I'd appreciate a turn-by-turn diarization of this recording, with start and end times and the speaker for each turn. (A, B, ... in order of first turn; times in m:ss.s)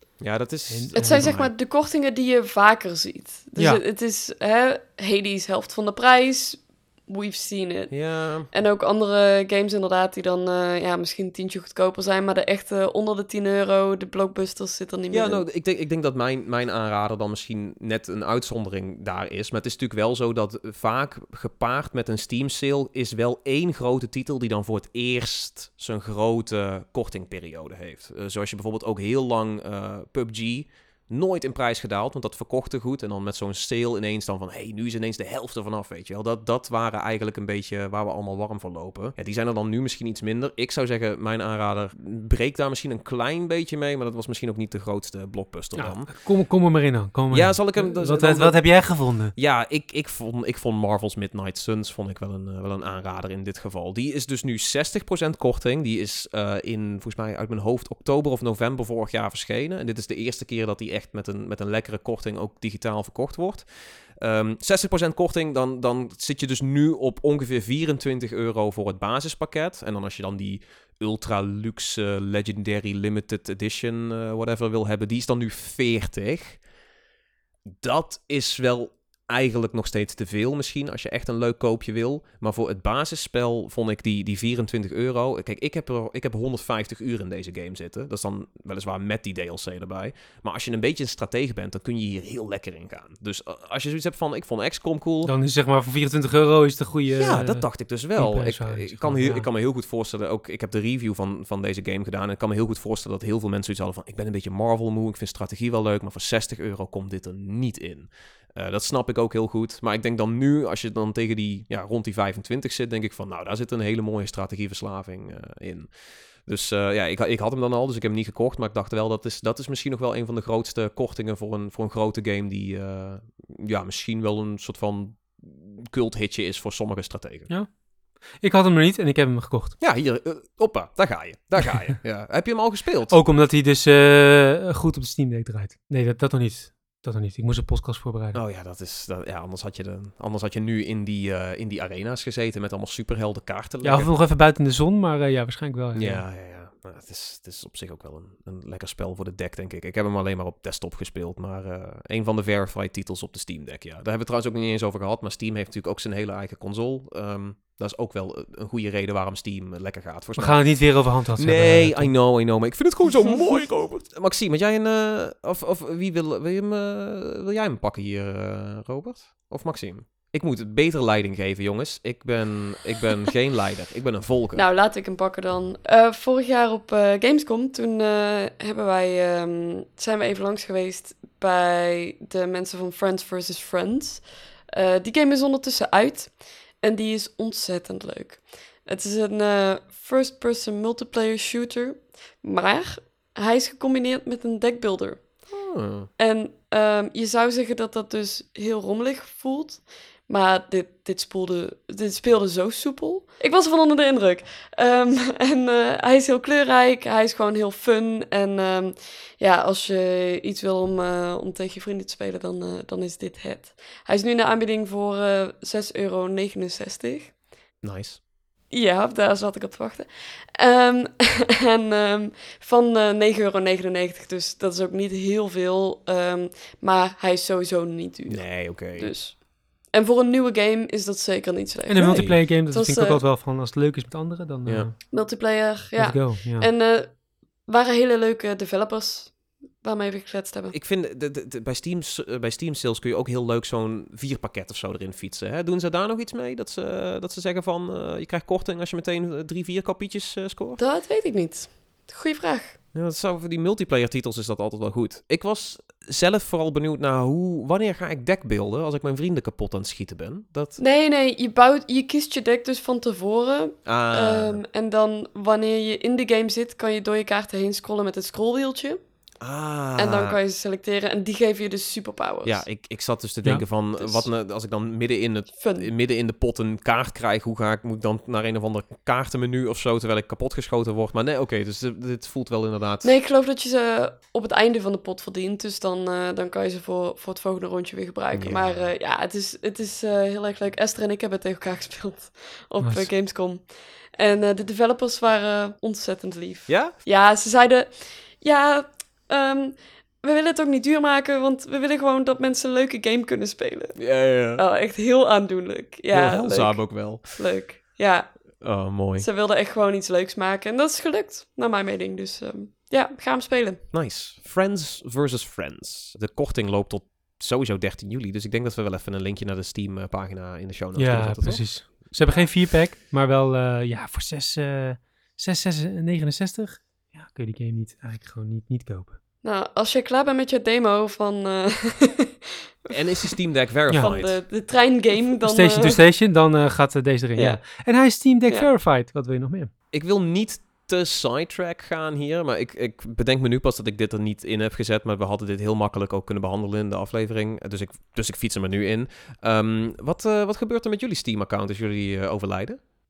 0:00.2-0:01.5 A
0:00.7-0:01.4 B
0:01.0-0:15.4 C
0:03.6-0:03.8 B
0:07.9-0:08.5 A
0:15.1-0:46.2 A
0:45.8-0:49.3 B
0:47.3-1:16.6 A
1:17.7-1:35.3 A
1:35.2-1:39.4 B
1:37.1-1:55.9 A
1:56.4-2:07.5 A
2:08.4-2:09.8 B
2:09.8-2:13.2 A
2:13.1-2:18.4 B
2:18.3-2:24.1 A
2:23.8-2:26.2 B
2:25.9-2:54.6 A
2:40.4-2:42.1 B
2:54.5-3:15.4 C
3:15.5-3:16.1 A
3:16.2-3:37.3 C
3:37.8-3:38.2 A
3:38.7-3:53.2 C
3:48.3-3:49.1 A
3:51.9-3:55.1 B
3:52.0-3:52.4 A
3:54.6-3:54.9 A
3:55.1-4:00.7 C
3:55.9-3:56.7 B
4:00.7-4:10.8 A
4:10.8-4:12.8 C
4:12.9-4:20.8 A
4:20.8-4:29.0 C
4:23.8-4:24.6 A
4:29.4-4:30.4 A
4:30.0-4:32.6 C
4:32.4-4:43.2 A
4:34.0-4:34.3 C
4:35.6-4:35.9 C
4:43.0-5:13.8 C
4:48.3-4:48.9 A
4:52.8-4:53.1 B
4:56.7-4:57.0 A
5:04.0-5:04.6 A
5:06.1-5:07.5 A
5:08.6-5:09.3 A
5:13.9-5:21.9 A
5:21.0-5:29.2 B
5:29.4-5:36.0 C
5:32.9-5:34.4 A
5:35.4-5:39.7 B
5:37.4-5:38.7 C
5:39.9-5:52.8 A